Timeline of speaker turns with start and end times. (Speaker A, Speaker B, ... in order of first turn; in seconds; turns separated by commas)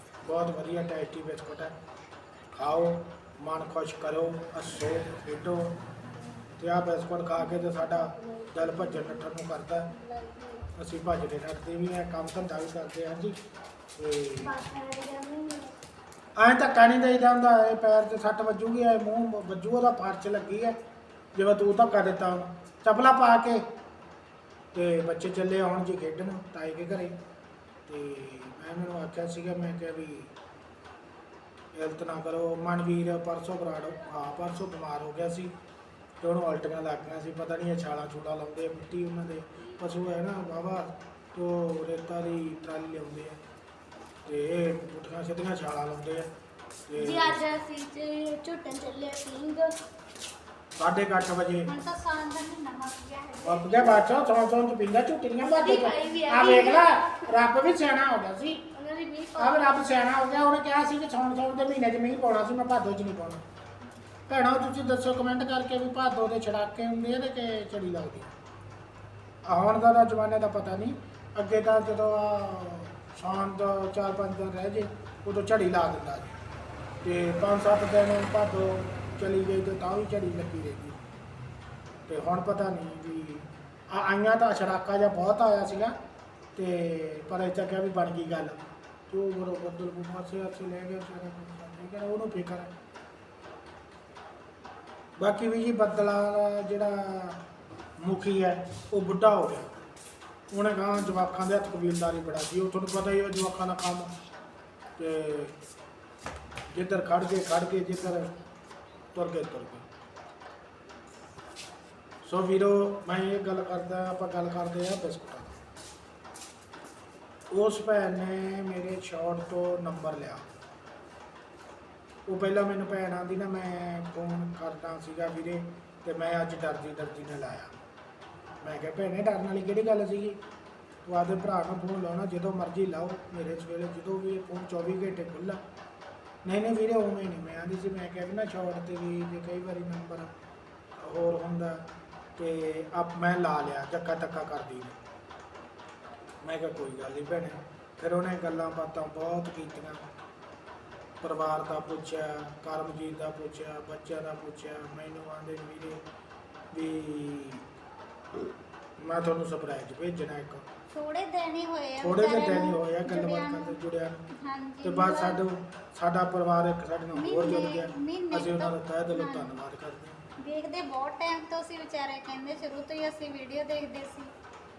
Speaker A: 0.2-1.8, Speaker A: 2.5-5.8, Speaker A: 6.6-9.9, Speaker B: 8.1-9.1, Speaker B: 10.1-10.6, Speaker A: 10.8-13.4, Speaker A: 14.0-14.5, Speaker B: 14.5-15.7, Speaker A: 16.4-20.8, Speaker A: 21.3-23.6, Speaker A: 24.7-27.2, Speaker A: 27.9-30.3, Speaker A: 31.7-35.5, Speaker A: 36.2-43.4, Speaker A: 44.3-46.3, Speaker A: 46.9-47.4, Speaker B: 47.0-49.8, Speaker A: 50.8-51.7, Speaker C: 51.7-53.8, Speaker A: 53.4-58.7, Speaker B: 55.4-57.1, Speaker B: 58.7-59.8, Speaker A: 59.4-63.4, Speaker A: 64.3-68.3, Speaker A: 69.5-76.4, Speaker A: 77.0-81.0, Speaker A: 82.1-85.9, Speaker A: 86.6-88.6, Speaker A: 89.1-92.7, Speaker A: 95.2-97.4, Speaker A: 98.0-99.8, Speaker A: 100.5-104.1, Speaker A: 105.0-105.6, Speaker A: 106.7-108.3, Speaker A: 109.1-109.9, Speaker A: 112.2-115.6, Speaker A: 117.5-120.5, Speaker A: 122.3-127.8, Speaker A: 128.6-130.4, Speaker A: 131.1-135.6, Speaker A: 136.4-140.3, Speaker A: 141.0-145.0, Speaker A: 146.4-150.0, Speaker A: 151.2-156.1, Speaker A: 156.7-157.7, Speaker A: 159.0-160.7, Speaker C: 160.9-163.8, Speaker A: 162.0-164.3, Speaker C: 164.4-165.4, Speaker A: 164.8-170.2, Speaker C: 167.1-169.6, Speaker C: 170.4-174.3